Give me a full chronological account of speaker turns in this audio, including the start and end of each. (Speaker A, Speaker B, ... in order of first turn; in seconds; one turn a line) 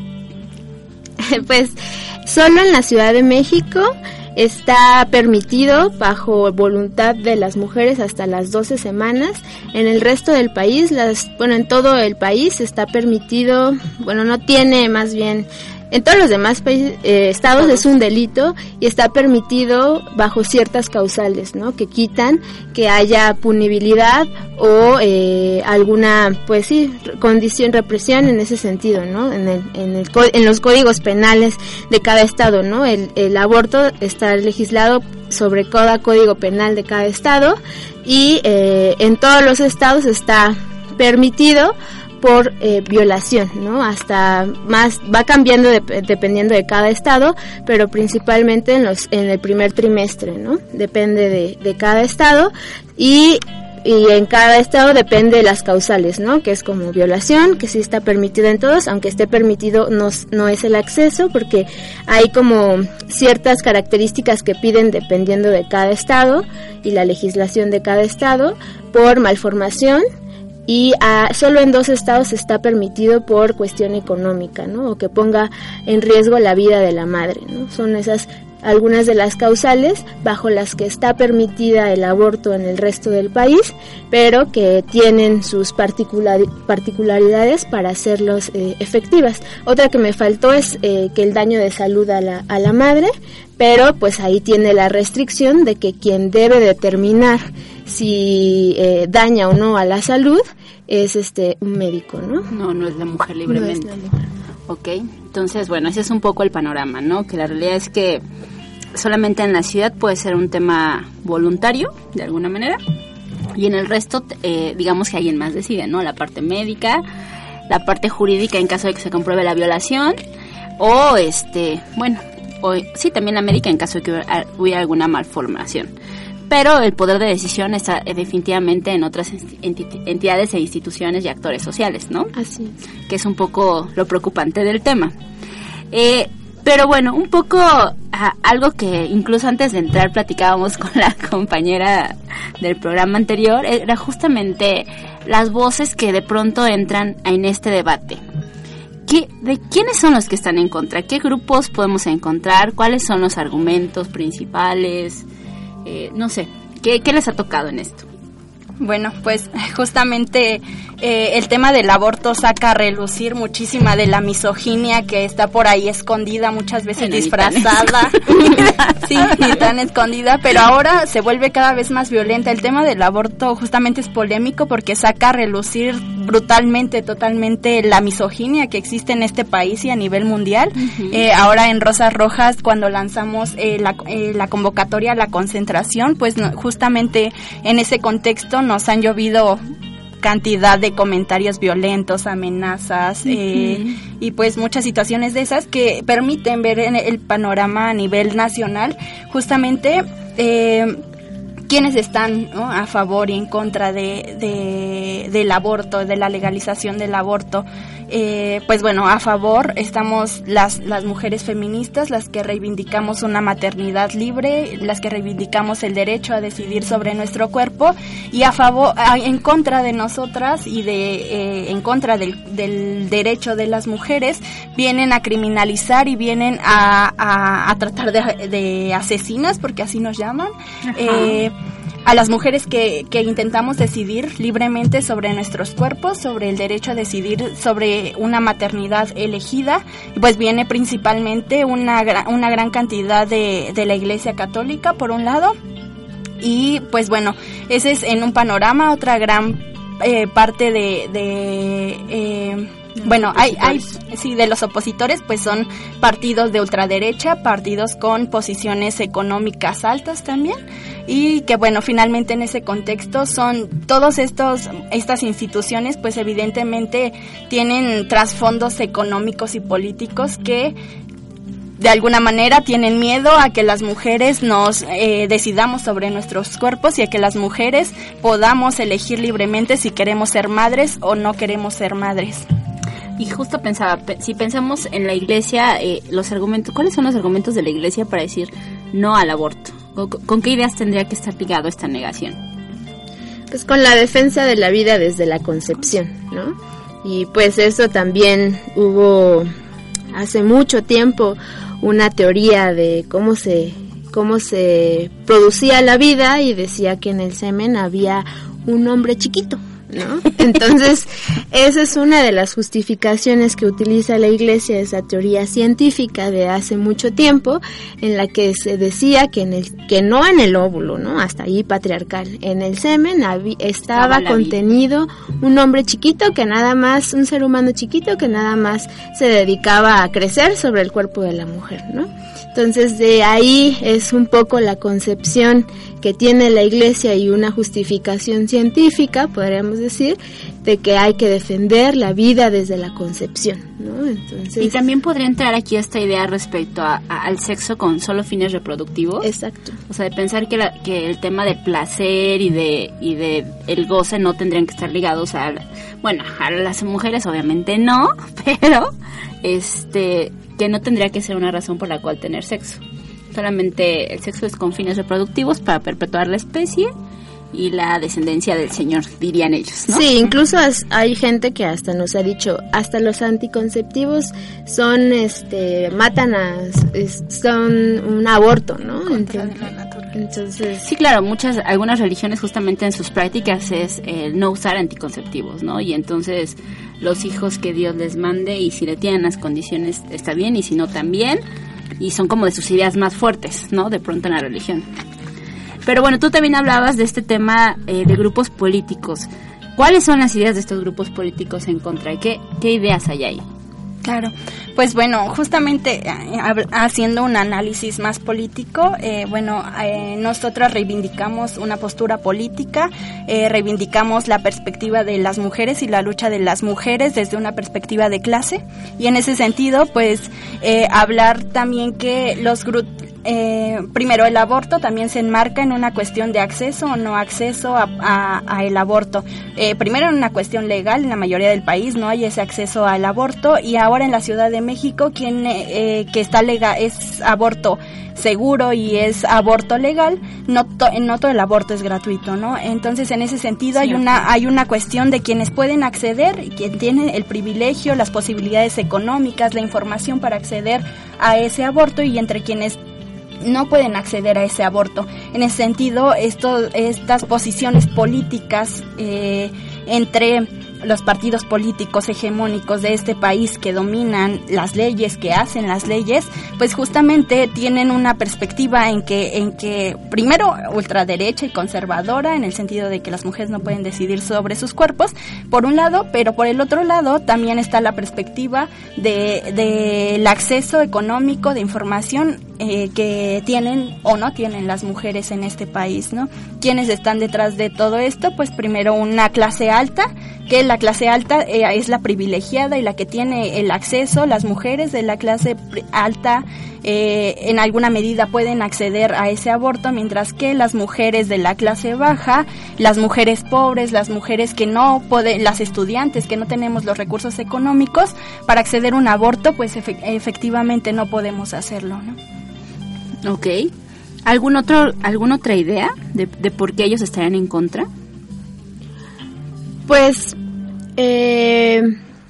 Speaker A: 1.2-70.0
Speaker B: 17.6-17.9
Speaker A: 70.7-102.5
Speaker B: 102.5-103.9
Speaker A: 103.5-104.2
Speaker B: 104.7-108.2
Speaker B: 108.9-112.8
Speaker B: 113.5-117.0
Speaker B: 117.7-120.2
Speaker B: 120.8-125.9
Speaker B: 126.5-132.3
Speaker A: 132.4-132.8
Speaker B: 133.1-135.2
Speaker B: 135.9-148.2
Speaker B: 149.1-155.3
Speaker B: 155.8-158.1
Speaker C: 158.8-189.6
Speaker B: 167.0-169.5
Speaker B: 180.8-181.2
Speaker C: 190.2-201.0
Speaker C: 201.7-231.5
Speaker C: 232.1-245.6
Speaker C: 246.4-270.8
Speaker B: 253.0-253.7
Speaker C: 271.8-282.5
Speaker B: 283.2-292.4
Speaker A: 293.5-299.5
Speaker A: 300.1-344.8
Speaker B: 323.9-324.6
Speaker B: 344.6-349.3
Speaker A: 349.2-349.8
Speaker B: 349.9-362.8
Speaker B: 363.3-366.9
Speaker B: 367.5-370.1
Speaker A: 369.9-380.8
Speaker C: 379.1-380.1
Speaker B: 380.8-391.4
Speaker B: 392.0-394.9
Speaker B: 395.9-403.4
Speaker C: 404.0-452.8
Speaker B: 443.8-444.2
Speaker C: 453.4-512.2
Speaker B: 513.2-513.7
Speaker B: 514.3-517.9
Speaker A: 519.9-520.4
Speaker A: 521.0-522.0